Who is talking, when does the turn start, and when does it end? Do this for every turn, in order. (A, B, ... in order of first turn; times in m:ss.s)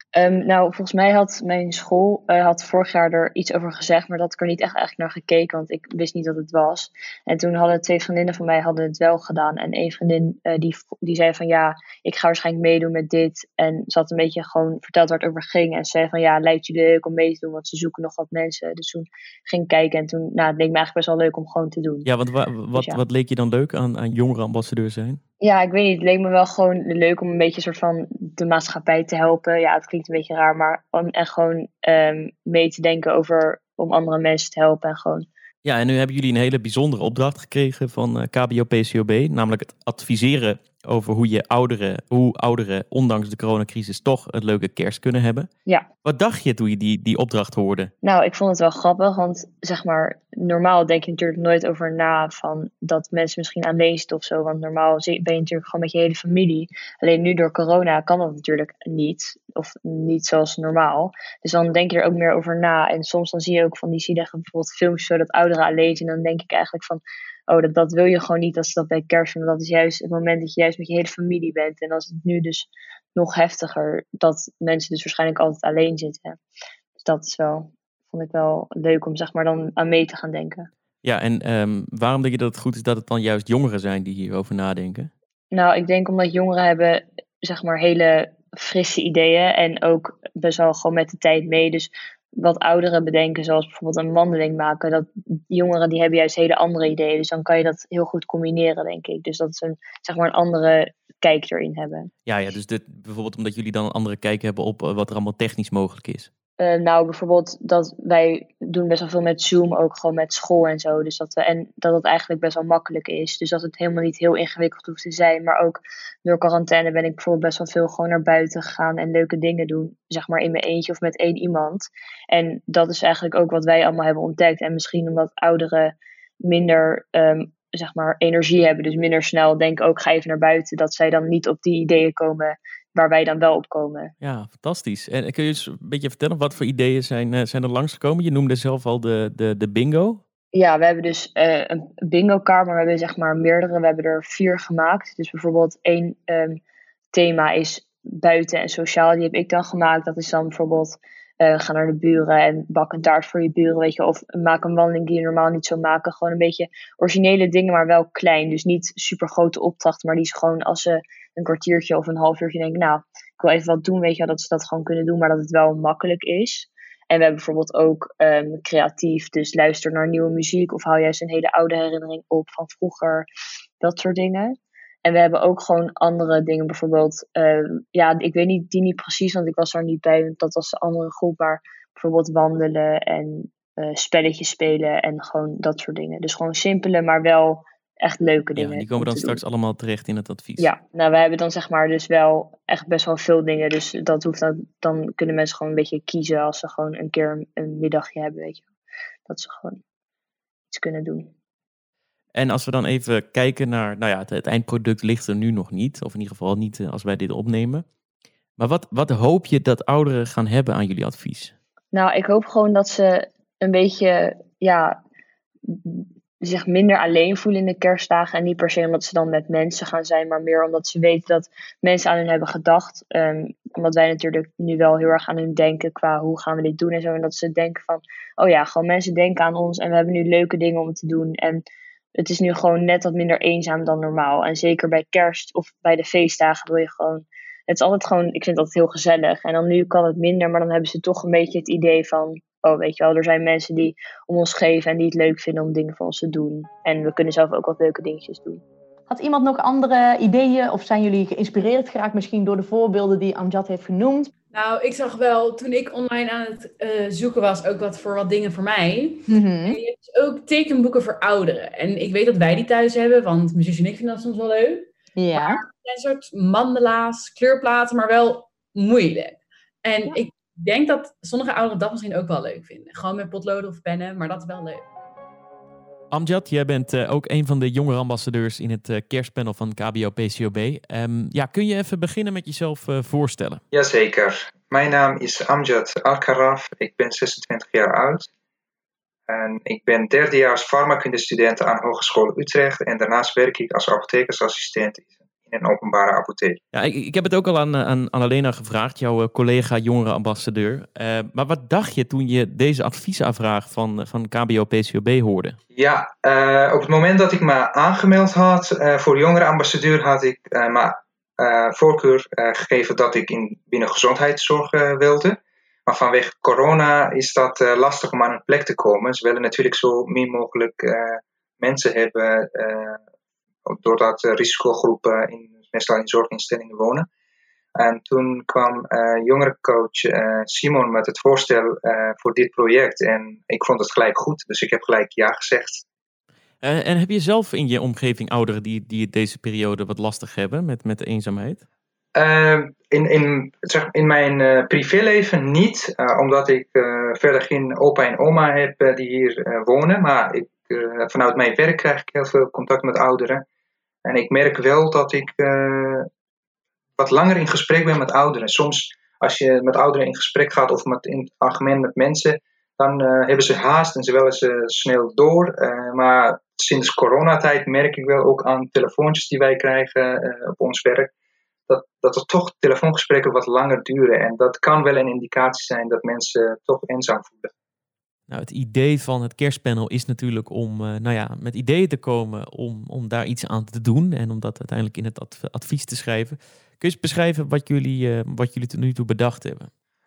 0:00.1-0:22.1 A
0:22.0-0:25.2 B
0:22.7-0:23.0 A
0:25.4-0:35.2 A
0:35.6-0:45.5 B
0:46.0-0:47.9 B
0:48.0-1:16.4 A
1:17.0-1:20.7 A
1:21.0-1:25.1 B
1:25.5-1:42.1 A
1:42.2-1:46.3 B
1:46.6-2:14.1 A
2:14.2-2:20.2 B
2:20.5-2:26.6 A
2:27.1-2:53.3 A
2:53.8-3:09.4 A
3:08.6-3:10.7 B
3:10.6-3:18.7 A
3:19.3-3:19.8 A
3:20.7-3:21.3 A
3:22.3-3:27.8 B
3:28.6-3:31.5 B
3:31.9-3:35.0 A
3:35.7-3:51.6 A
3:52.2-4:08.6 A
4:09.1-4:14.3 C
4:14.5-4:34.9 D
4:19.3-4:19.8 C
4:25.2-4:25.6 C
4:36.1-4:43.6 B
4:43.7-4:48.3 E
4:49.3-4:56.6 E
4:56.7-5:05.6 B
5:05.7-5:23.0 E
5:23.7-5:27.1 E
5:27.8-5:35.8 E
5:36.6-5:41.6 B
5:42.1-5:53.4 E
5:54.0-5:56.1 E
5:57.0-6:11.1 E
6:11.7-6:17.5 E
6:18.3-6:29.7 B